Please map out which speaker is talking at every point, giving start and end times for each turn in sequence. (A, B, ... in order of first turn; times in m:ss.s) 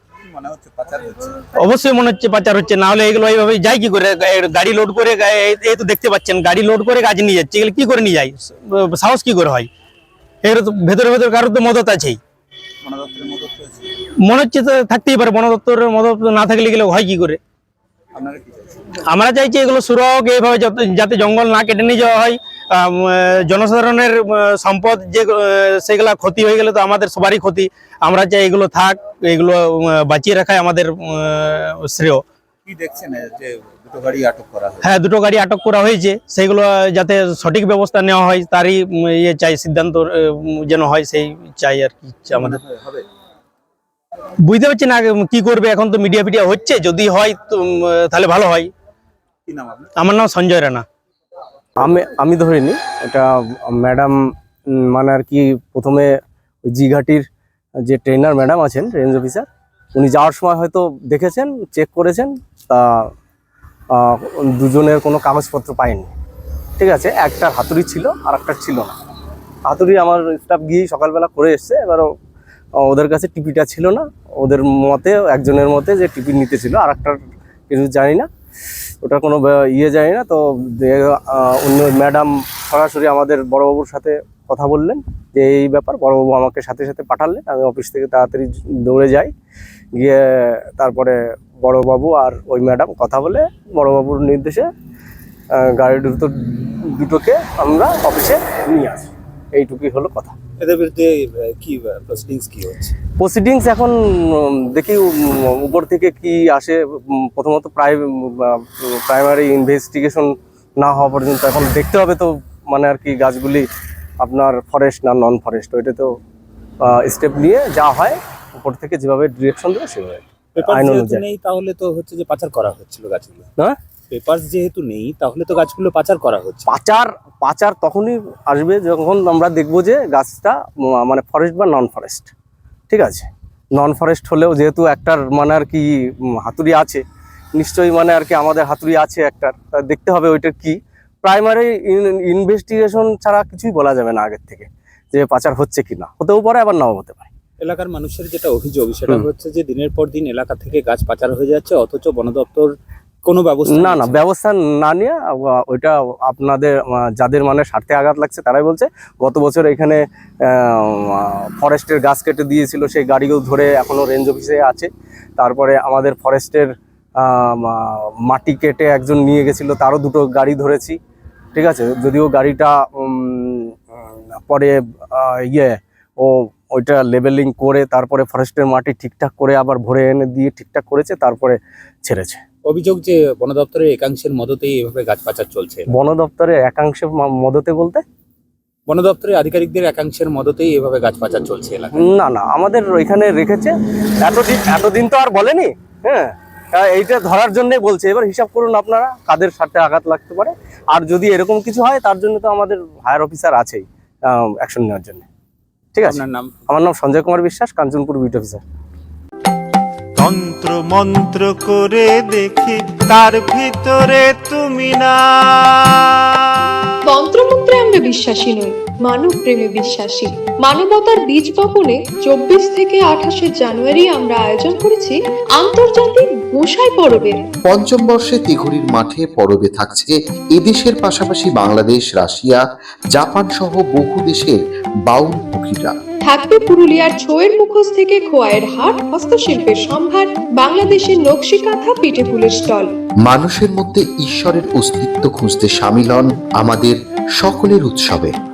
0:00.2-0:01.4 A
0:01.6-0:09.7 B
0:10.4-0:12.2 B
0:12.8-0:13.9 A
0:14.2-0:17.4 B
0:18.1-0:18.9 A
0:19.1-0:32.2 B
0:32.6-0:34.9 A
0:34.8-0:42.6 B
0:42.3-0:43.0 A
0:44.4-0:48.7 B
0:49.4-0:49.9 A
0:50.0-0:50.8 B
0:51.8-0:54.2 C
0:54.9-0:56.1 C
0:56.6-0:57.2 C
0:57.8-1:03.1 C
1:03.9-1:06.1 C
1:06.8-1:08.9 C
1:09.6-1:12.1 C
1:12.8-1:17.2 C
1:17.7-1:18.3 C
1:19.0-1:29.3 C
1:30.0-1:34.7 C
1:35.5-1:40.4 C
1:40.6-1:42.9 A
1:43.2-1:53.6 C
1:54.2-1:56.1 C
1:56.8-2:01.2 C
2:00.6-2:03.5 A
2:04.1-2:06.7 A
2:06.7-2:12.3 C
2:12.9-2:15.9 C
2:16.4-2:17.0 C
2:17.6-2:27.3 C
2:27.6-2:32.7 A
2:33.2-2:34.2 A
2:33.7-2:46.7 C
2:47.2-2:51.0 C
2:51.5-3:02.4 C
3:02.6-3:05.9 A
3:05.9-3:08.0 C
3:08.9-3:12.1 A
3:11.9-3:25.2 C
3:25.9-3:28.6 C
3:26.0-3:26.6 A
3:30.2-3:35.9 D
3:37.0-3:47.4 E
3:47.7-3:52.6 F
3:53.1-3:55.9 F
3:56.2-4:02.9 E
4:03.2-4:08.3 F